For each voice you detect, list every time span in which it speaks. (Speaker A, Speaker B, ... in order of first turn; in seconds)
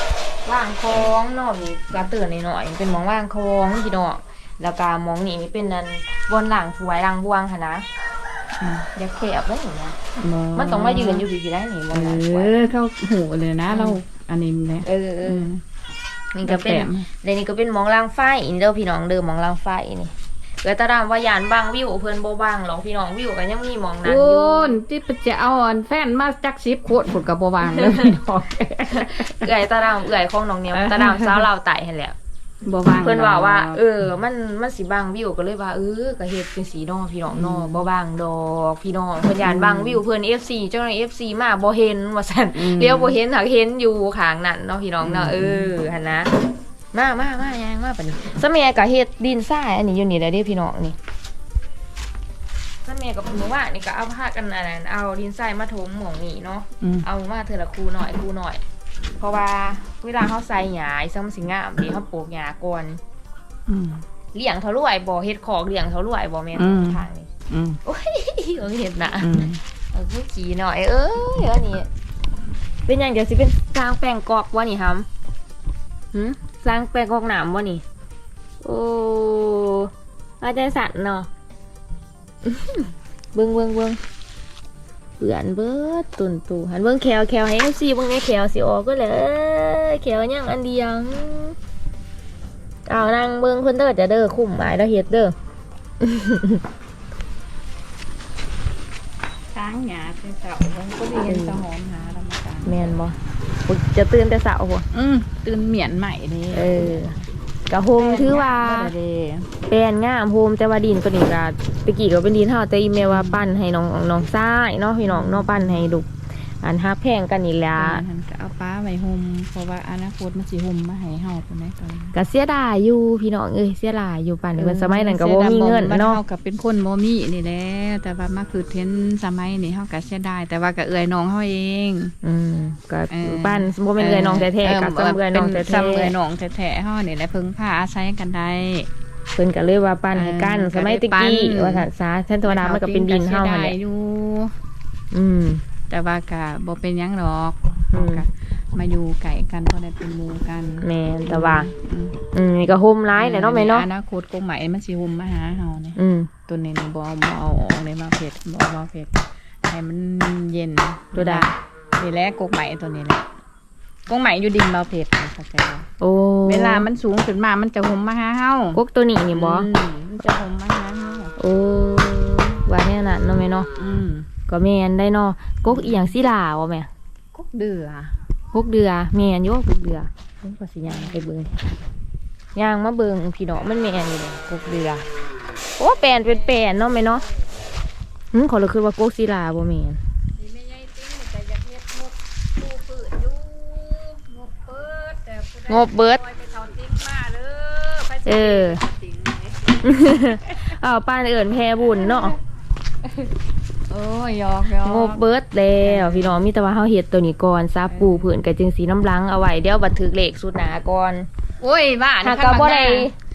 Speaker A: 0.5-7.9, 8.9-10.0, 10.6-12.5, 13.7-14.0, 14.8-15.5, 16.3-24.8, 27.6-28.1, 28.9-32.2, 33.0-46.3, 46.9-51.0, 52.9-58.6, 59.2-63.0, 64.3-67.3, 67.8-71.9, 72.9-75.1, 76.1-77.8, 78.6-81.3, 82.5-84.0, 85.2-91.6, 92.9-95.3, 96.0-96.6, 101.2-101.6, 102.7-104.9, 106.5-107.2, 107.7-108.9, 109.7-116.1, 116.6-118.0, 122.1-126.2, 132.2-136.1, 139.3-143.8, 145.1-145.6, 147.9-148.2, 150.8-151.7, 152.3-153.9, 156.0-156.3, 161.1-161.5, 166.0-166.9, 168.8-169.7, 171.4-173.7, 174.5-176.9, 178.5-181.7, 182.6-185.1, 185.8-187.2, 188.3-190.0, 195.7-196.2, 198.2-198.8, 199.8-202.4, 204.8-211.3, 212.2-213.1
Speaker B: 8.6-8.9, 10.2-11.3, 11.9-15.6, 16.4-17.1, 24.0-29.5, 30.7-31.5, 32.6-33.8, 37.3-37.8, 39.4-40.0, 42.5-43.2, 45.0-45.7, 56.8-57.1, 63.7-64.0, 66.6-67.8, 69.2-69.6, 99.5-102.8, 104.9-107.0, 107.9-109.5, 113.0-113.4, 115.0-115.8, 117.8-122.2, 124.6-132.1, 133.1-138.9, 140.1-141.9, 142.4-144.5, 145.9-152.2, 153.1-163.3, 164.1-165.9, 166.4-168.8, 169.3-171.3, 173.8-174.3, 175.7-176.2, 177.3-178.2, 180.9-181.3, 190.4-200.6, 203.9-205.2, 205.8-206.4, 207.9-208.3, 211.6-213.1